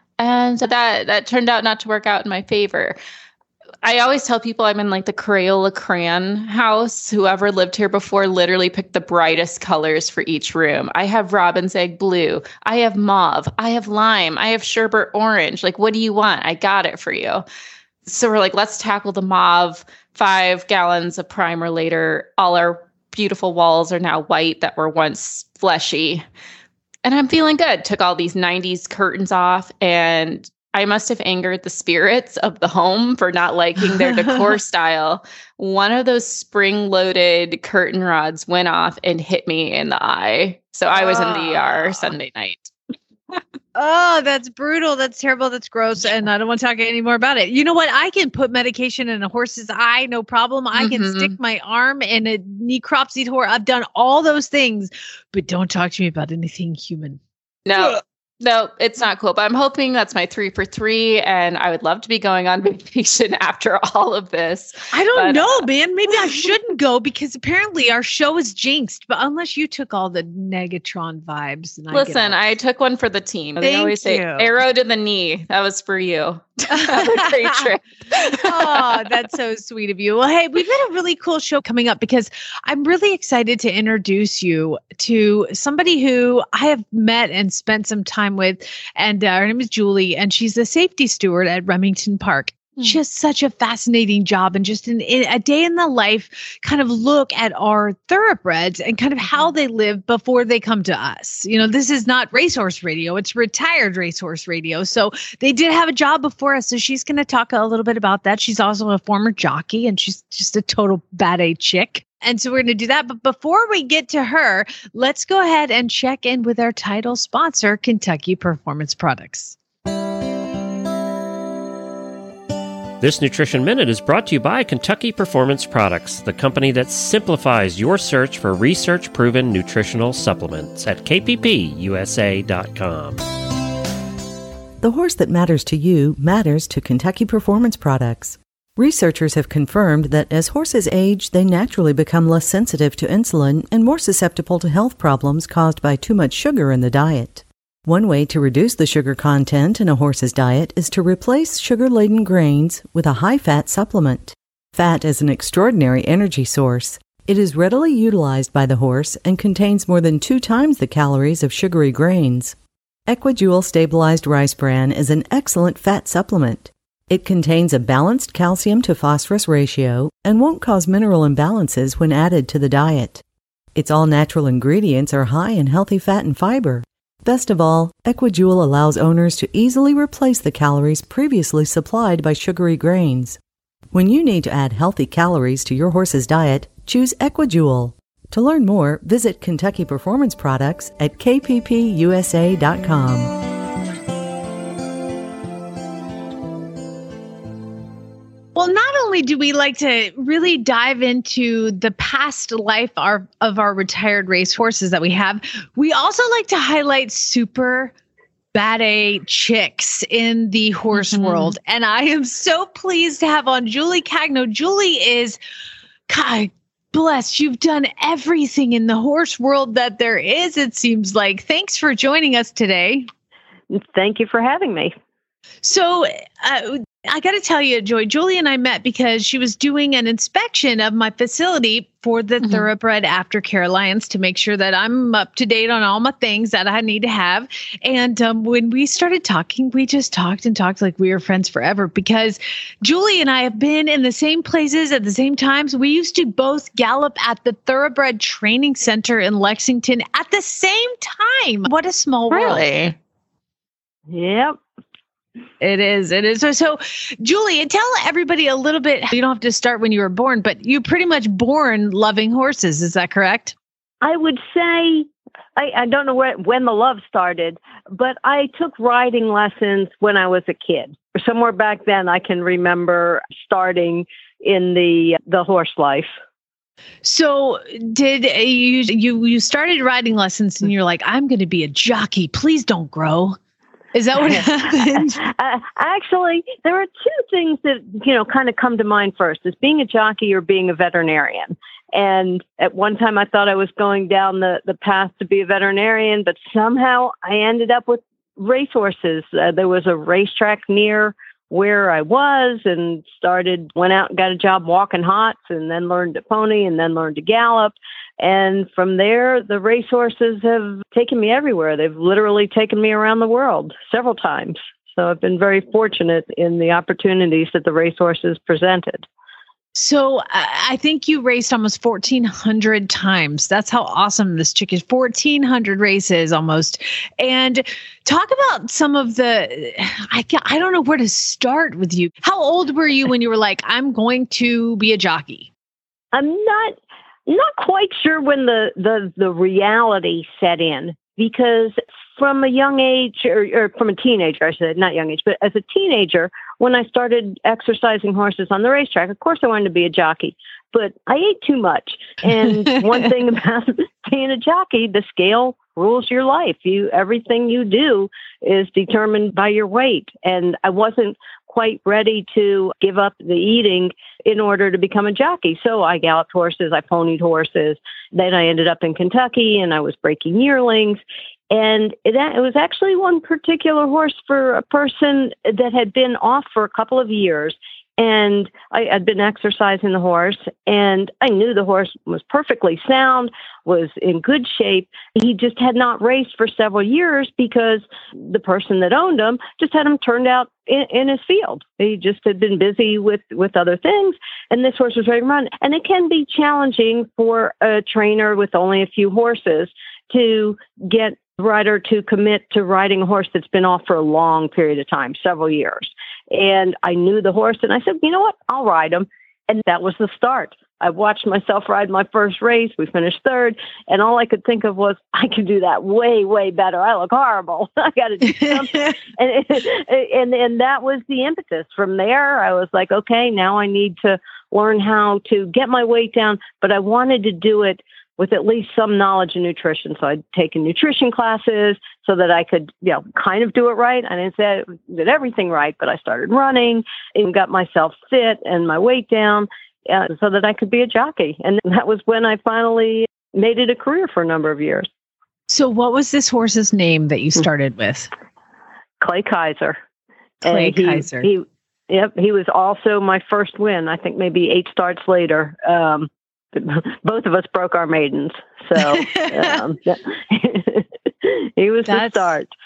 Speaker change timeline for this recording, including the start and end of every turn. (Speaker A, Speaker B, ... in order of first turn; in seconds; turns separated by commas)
Speaker A: 0.2-3.0, Speaker A: 3.8-17.4, Speaker A: 18.1-26.2, Speaker A: 27.0-42.7, Speaker B: 34.0-34.3, Speaker B: 40.9-42.1, Speaker B: 43.7-57.2, Speaker A: 50.8-51.3, Speaker A: 57.6-65.7, Speaker B: 64.9-72.4, Speaker A: 71.9-78.8, Speaker B: 73.6-74.5, Speaker B: 76.7-77.6, Speaker B: 78.4-119.6, Speaker C: 123.0-133.2, Speaker D: 134.8-162.6, Speaker D: 163.1-173.2, Speaker D: 173.7-183.4, Speaker D: 183.9-193.4, Speaker B: 198.5-207.9, Speaker B: 208.5-215.4, Speaker A: 210.9-211.5, Speaker B: 216.1-223.1, Speaker E: 223.7-224.9, Speaker B: 225.6-252.7, Speaker A: 252.3-252.9, Speaker E: 254.1-254.6, Speaker B: 255.6-263.5, Speaker E: 264.0-276.1, Speaker B: 277.0-283.4, Speaker B: 283.9-285.2, Speaker E: 285.2-319.1, Speaker B: 319.7-335.5, Speaker E: 336.1-336.8, Speaker E: 337.3-371.0, Speaker E: 371.5-444.9, Speaker B: 418.3-418.9, Speaker B: 445.5-448.1, Speaker E: 449.0-449.8, Speaker B: 450.4-451.3, Speaker E: 450.4-462.5, Speaker B: 458.8-459.6, Speaker B: 461.9-462.4